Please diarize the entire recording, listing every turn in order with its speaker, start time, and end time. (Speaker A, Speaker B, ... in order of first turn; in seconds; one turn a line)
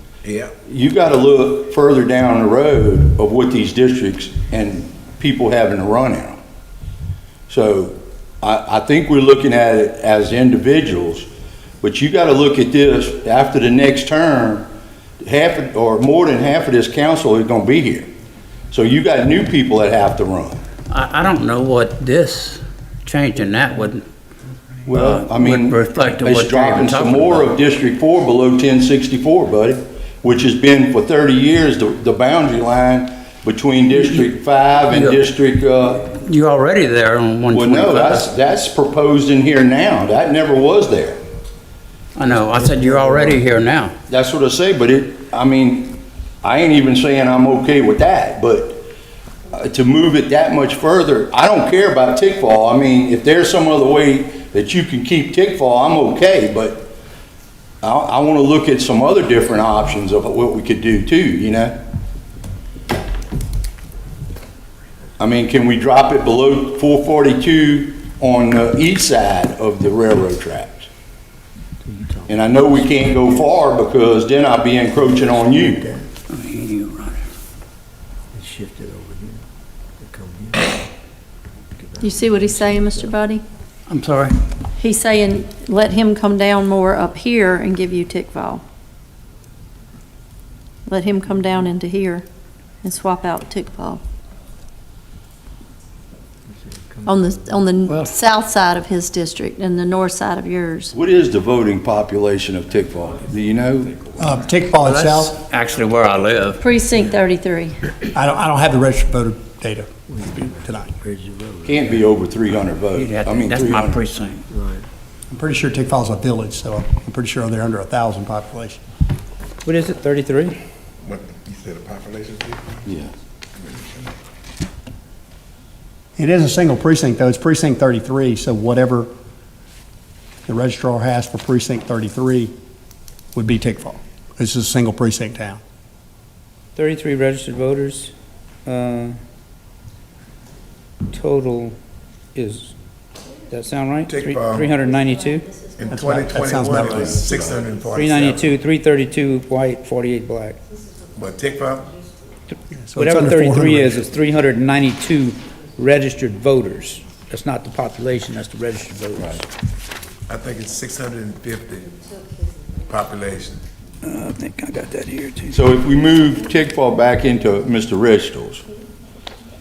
Speaker A: 0.2-0.5
Speaker B: 0.7-6.4
Speaker B: 7.5-11.3
Speaker B: 11.8-14.7
Speaker B: 15.2-18.1
Speaker B: 18.7-20.6
Speaker C: 20.9-24.1
Speaker B: 24.9-36.1
Speaker C: 24.9-27.5
Speaker C: 33.9-34.2
Speaker C: 34.9-35.2
Speaker C: 36.0-38.3
Speaker B: 37.5-41.2
Speaker C: 42.1-44.0
Speaker B: 44.1-48.9
Speaker B: 49.5-56.9
Speaker B: 57.8-61.8
Speaker B: 65.2-70.9
Speaker D: 71.8-73.4
Speaker B: 72.3-75.9
Speaker D: 75.0-76.0
Speaker C: 76.3-77.2
Speaker D: 78.3-79.4
Speaker D: 80.0-80.7
Speaker D: 81.8-83.1
Speaker E: 82.0-83.4
Speaker C: 83.9-84.3
Speaker E: 84.8-88.6
Speaker E: 90.9-92.3
Speaker E: 92.8-94.0
Speaker E: 97.0-101.0
Speaker B: 100.9-104.2
Speaker F: 104.2-105.3
Speaker C: 104.8-106.7
Speaker E: 106.6-107.8
Speaker F: 108.1-110.9
Speaker D: 110.1-112.1
Speaker B: 111.6-114.0
Speaker C: 113.0-114.5
Speaker D: 114.5-114.8
Speaker F: 115.3-118.8
Speaker G: 119.7-120.6
Speaker A: 121.0-122.8
Speaker B: 122.8-123.1
Speaker A: 123.6-124.1
Speaker F: 126.2-129.1
Speaker F: 130.5-132.5
Speaker F: 133.3-135.6
Speaker G: 136.8-138.1
Speaker G: 138.7-139.2
Speaker G: 141.1-141.8
Speaker G: 142.3-142.7
Speaker G: 143.5-145.4
Speaker A: 144.1-144.8
Speaker E: 144.9-147.5
Speaker A: 145.8-148.6
Speaker F: 145.9-147.4
Speaker G: 147.9-150.6
Speaker A: 151.2-151.9
Speaker F: 152.7-154.1
Speaker G: 153.0-159.4
Speaker A: 160.3-161.9
Speaker A: 162.9-163.6
Speaker G: 164.1-165.3
Speaker B: 165.5-168.6